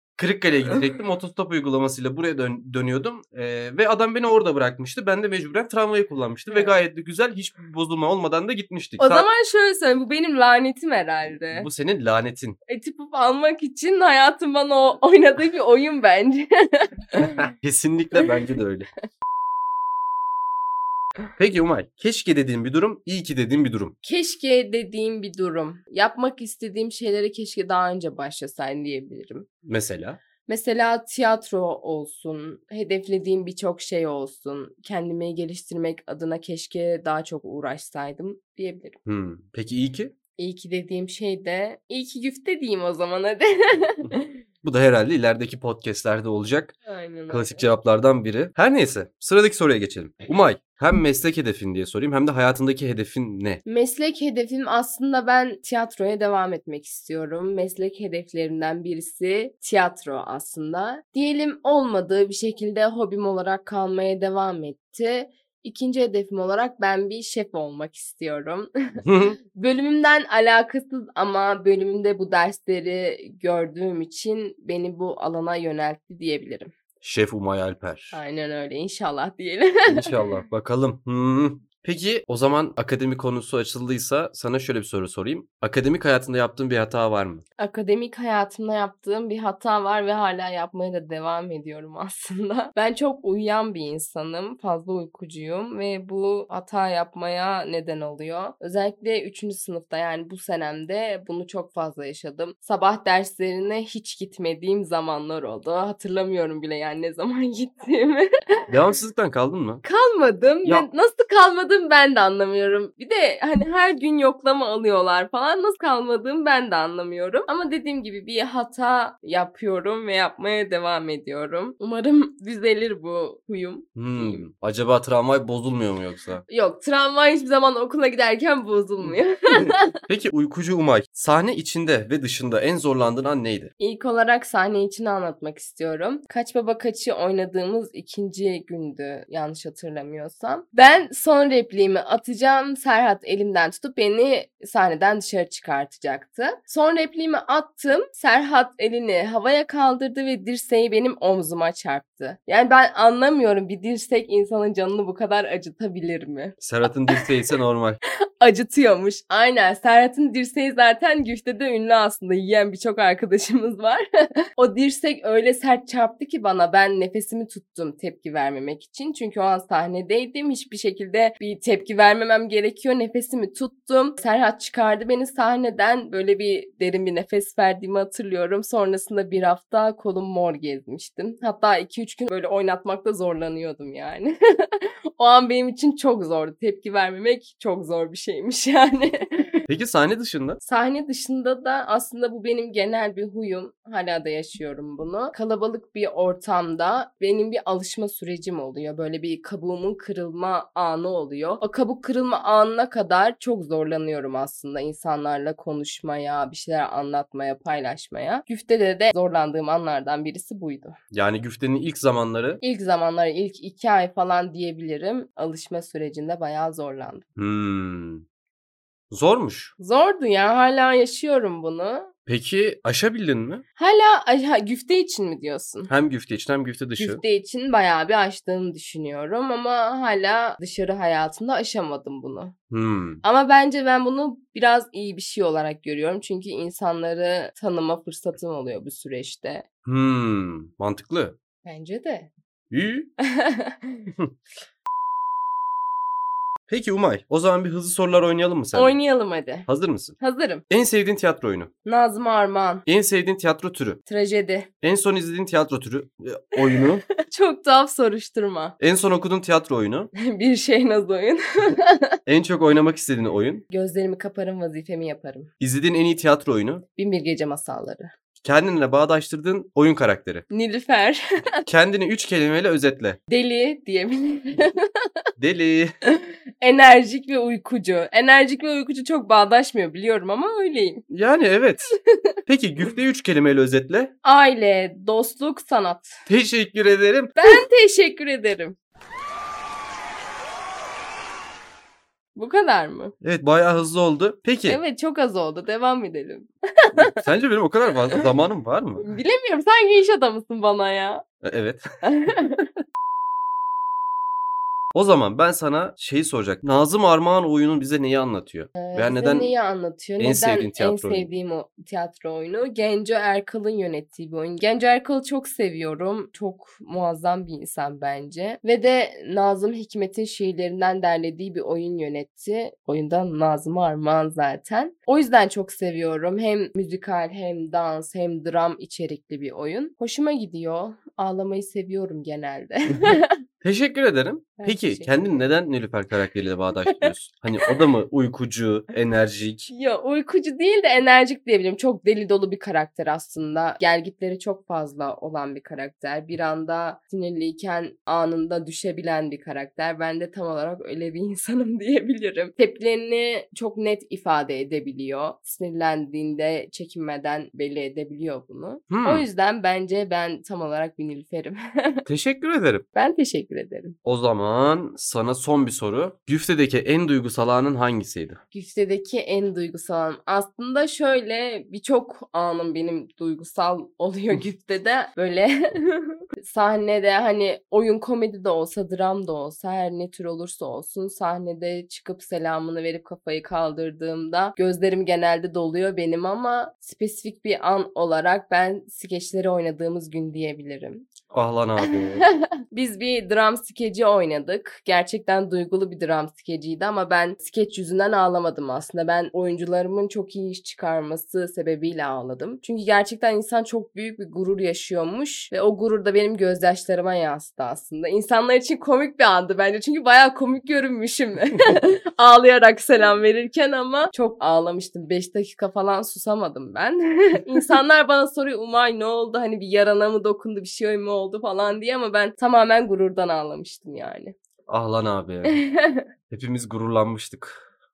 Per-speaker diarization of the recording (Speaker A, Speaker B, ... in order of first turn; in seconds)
Speaker A: 0.2-9.3, 11.5-12.6, 17.6-18.9, 21.4-23.9, 29.6-30.2, 39.1-40.1, 44.6-46.7, 47.3-53.6, 69.0-69.4, 77.0-78.2, 79.9-87.4, 108.7-109.8, 124.0-126.4, 129.0-133.7, 156.6-158.0, 189.7-190.6, 211.1-212.6, 217.4-218.2, 219.1-219.7, 222.3-223.6, 225.9-227.2, 232.7-233.2, 239.8-241.4, 242.7-243.1, 246.7-249.0, 249.7-250.2, 250.7-251.7, 252.9-254.0, 254.8-257.0, 258.8-260.1, 262.3-263.6, 265.6-266.8, 268.4-270.4, 271.7-273.2, 275.4-275.9, 281.1-281.9, 282.5-284.1, 286.3-287.6, 293.2-294.8, 297.1-299.1, 301.4-301.8, 304.9-309.5, 310.2-311.3, 333.6-339.7, 358.9-359.3, 362.1-362.8, 364.1-368.4, 391.3-392.3, 424.7-425.6, 426.3-427.7
Speaker B: 6.5-6.7, 9.0-11.7, 12.7-17.4, 24.0-29.5, 30.5-39.0, 40.4-44.4, 46.9-47.7, 53.7-68.7, 69.5-76.7, 78.1-80.2, 87.6-108.3, 109.8-124.5, 126.5-129.9, 133.8-157.3, 158.4-164.0, 164.6-189.6, 190.6-210.9, 212.6-217.2, 219.8-222.1, 223.8-225.9, 227.0-232.6, 233.2-239.7, 241.6-242.3, 243.2-244.1, 248.7-249.7, 250.2-250.6, 251.8-252.8, 254.1-254.7, 256.7-258.8, 260.2-262.1, 263.7-265.5, 266.9-268.1, 270.5-271.2, 273.3-274.9, 276.1-281.1, 284.2-286.1, 287.4-288.8, 292.4-293.1, 294.7-297.1, 299.0-301.2, 302.0-302.6, 308.8-333.4, 334.6-335.5, 336.9-337.8, 339.7-362.0, 362.9-364.0, 368.5-391.1, 392.7-424.4, 425.5-426.1